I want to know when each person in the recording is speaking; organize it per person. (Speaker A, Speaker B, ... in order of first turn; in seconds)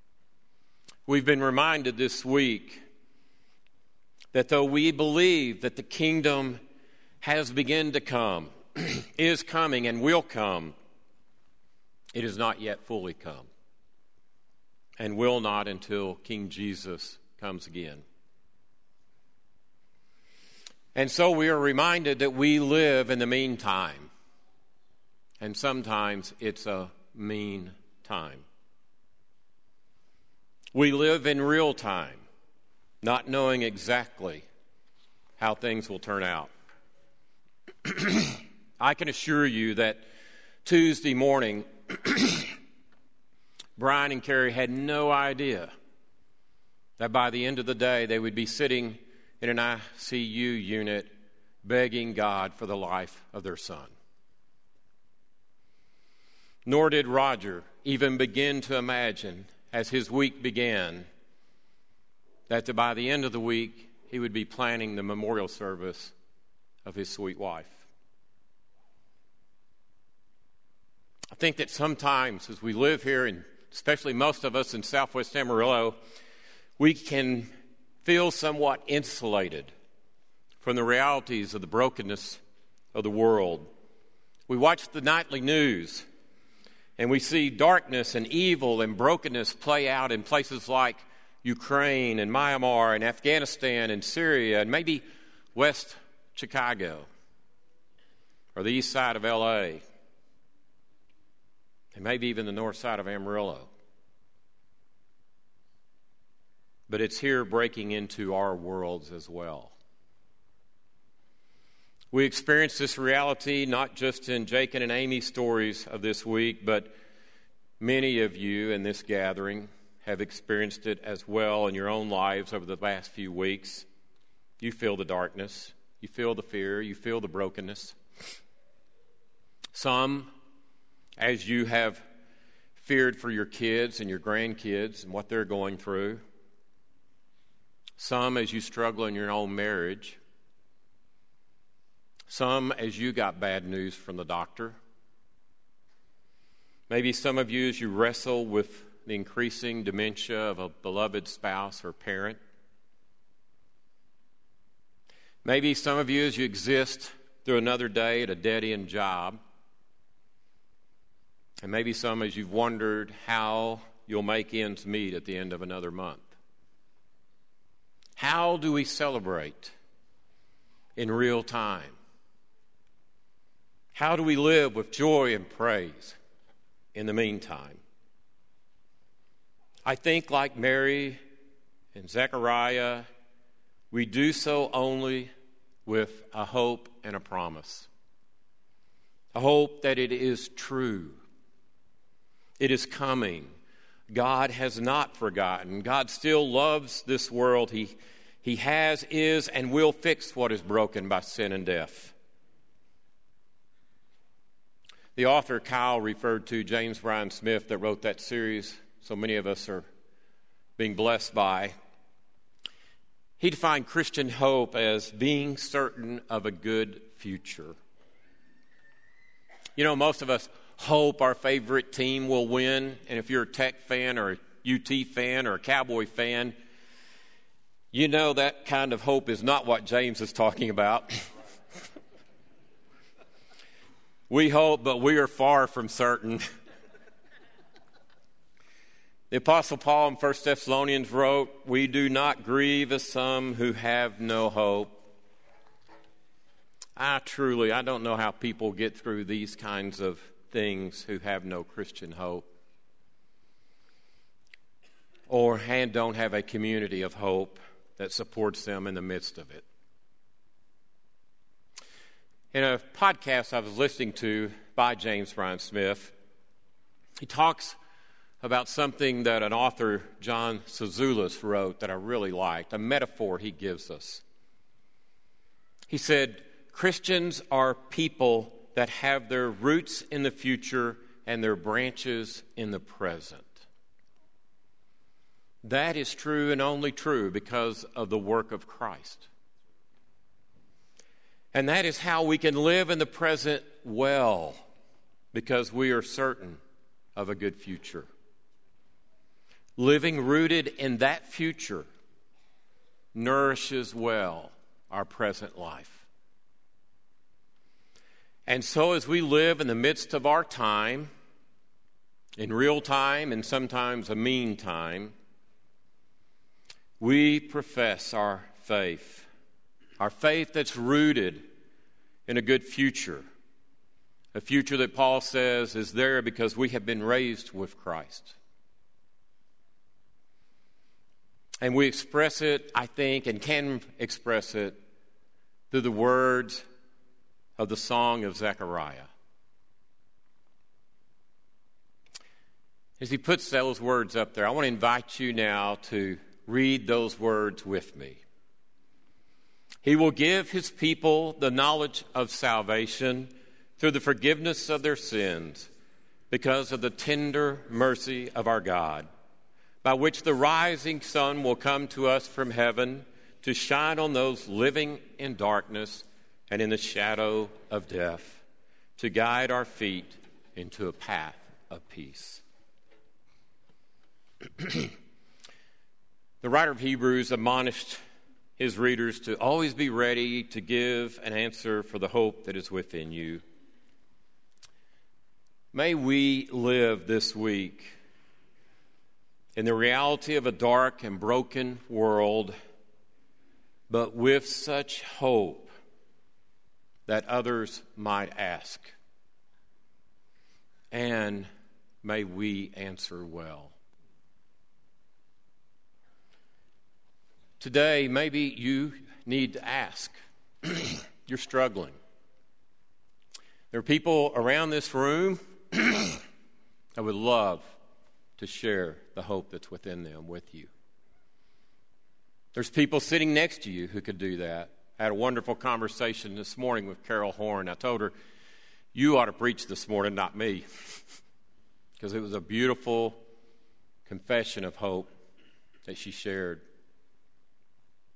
Speaker A: 1.1-2.8, 4.3-6.6, 7.2-10.7, 12.1-13.5, 15.0-18.0, 20.9-24.1, 25.4-28.4, 30.7-32.2, 33.0-34.5, 35.4-36.5, 37.8-40.0, 40.6-42.5, 43.8-45.7, 47.0-51.1, 51.6-53.9, 56.6-61.1, 62.5-66.1, 66.8-67.8, 71.3-76.0, 76.8-77.5, 78.0-79.7, 80.6-82.4, 82.9-83.7, 84.5-86.0, 87.0-95.0, 95.5-97.1, 98.5-99.8, 101.9-103.7, 106.9-109.8, 112.1-116.9, 117.8-123.8, 124.6-128.0, 129.7-130.3, 131.2-132.0, 132.8-136.2, 138.0-140.2, 142.3-144.8, 146.9-152.4, 155.4-159.4, 161.6-166.3, 168.2-169.7, 170.9-171.9, 173.9-176.2, 176.9-177.8, 179.8-181.2, 181.9-183.1, 183.9-185.3, 185.8-187.9, 189.3-191.2, 192.6-193.5, 194.1-202.1, 205.2-209.8, 210.8-211.7, 213.4-217.8, 219.8-226.5, 227.9-231.1, 234.3-236.4, 239.3-245.0, 247.0-252.5, 255.3-259.6, 262.5-266.1, 267.2-267.8, 268.4-274.2, 275.9-283.6, 285.6-289.3, 291.5-294.6, 295.3-296.6, 297.1-298.1, 299.8-301.9, 303.1-306.1, 308.5-311.1, 312.4-315.1, 317.0-319.3, 320.0-321.4, 322.3-323.2, 324.3-328.4, 331.6-334.8, 335.7-336.6, 337.6-339.1, 343.0-348.2, 349.8-355.7, 356.3-359.1, 359.8-368.4, 369.0-372.4, 374.6-374.9, 376.4-378.0, 378.6-383.4, 385.7-387.9, 389.6-392.5, 393.9-395.7, 397.1-398.9, 400.9-401.5, 402.0-403.7, 407.6-411.9, 413.7-416.2, 417.0-417.7, 418.4-420.7, 422.5-428.1, 428.9-430.6, 432.0-433.2, 434.1-435.1, 435.9-436.6